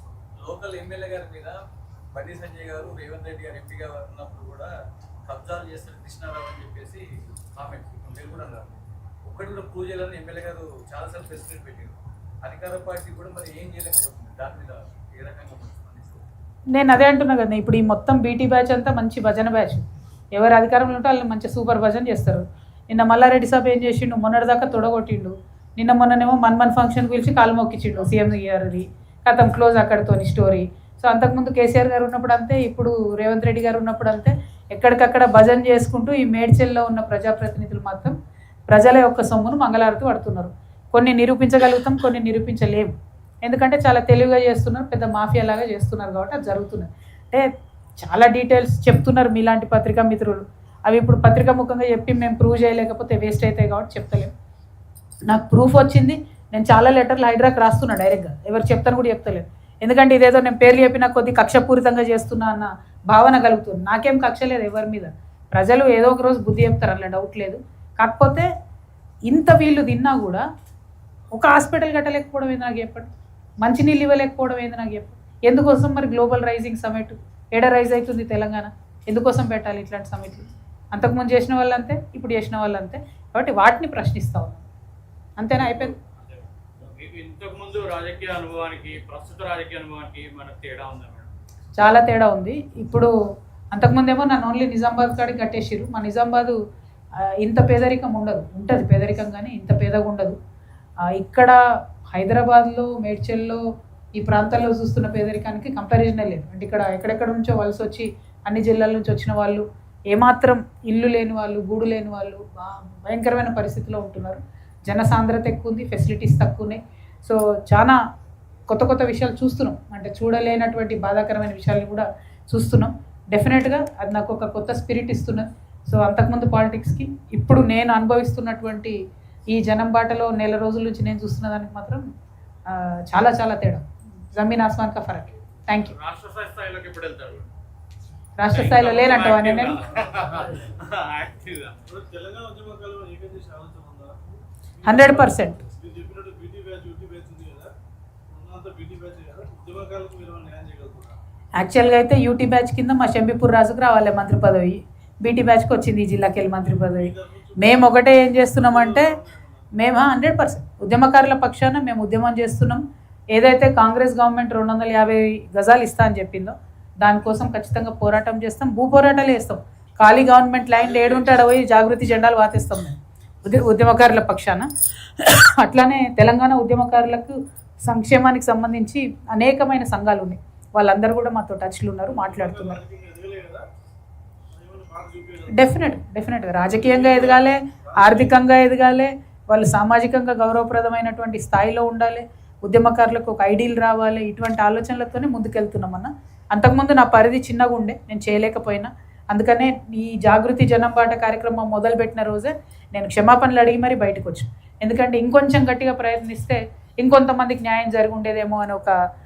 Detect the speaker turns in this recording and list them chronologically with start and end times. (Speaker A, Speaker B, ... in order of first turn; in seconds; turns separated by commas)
Speaker A: 0.4-1.6, Speaker A: 2.1-4.7, Speaker A: 5.2-16.2, Speaker B: 16.7-19.8, Speaker B: 20.3-38.2, Speaker B: 38.7-42.9, Speaker B: 43.4-47.5, Speaker B: 48.0-54.3, Speaker B: 55.3-68.5, Speaker B: 69.3-70.4, Speaker B: 71.3-73.1, Speaker B: 73.6-84.6, Speaker B: 85.4-85.9, Speaker C: 85.6-91.3, Speaker B: 91.8-93.1, Speaker B: 93.7-96.6, Speaker B: 97.4-100.3, Speaker B: 101.1-101.6, Speaker B: 102.1-103.6, Speaker B: 104.2-118.0, Speaker B: 118.7-129.0, Speaker B: 129.5-132.0, Speaker B: 132.7-135.9, Speaker C: 135.8-137.5, Speaker B: 138.4-139.8, Speaker C: 138.5-141.8, Speaker D: 140.2-140.7, Speaker D: 141.9-147.7, Speaker B: 144.8-145.6, Speaker D: 148.3-151.2, Speaker B: 151.6-159.1, Speaker D: 156.7-158.0, Speaker D: 158.5-159.7, Speaker B: 159.7-182.8, Speaker D: 170.7-171.4, Speaker D: 182.1-183.7, Speaker D: 184.5-185.7, Speaker B: 185.5-209.0, Speaker D: 186.6-188.4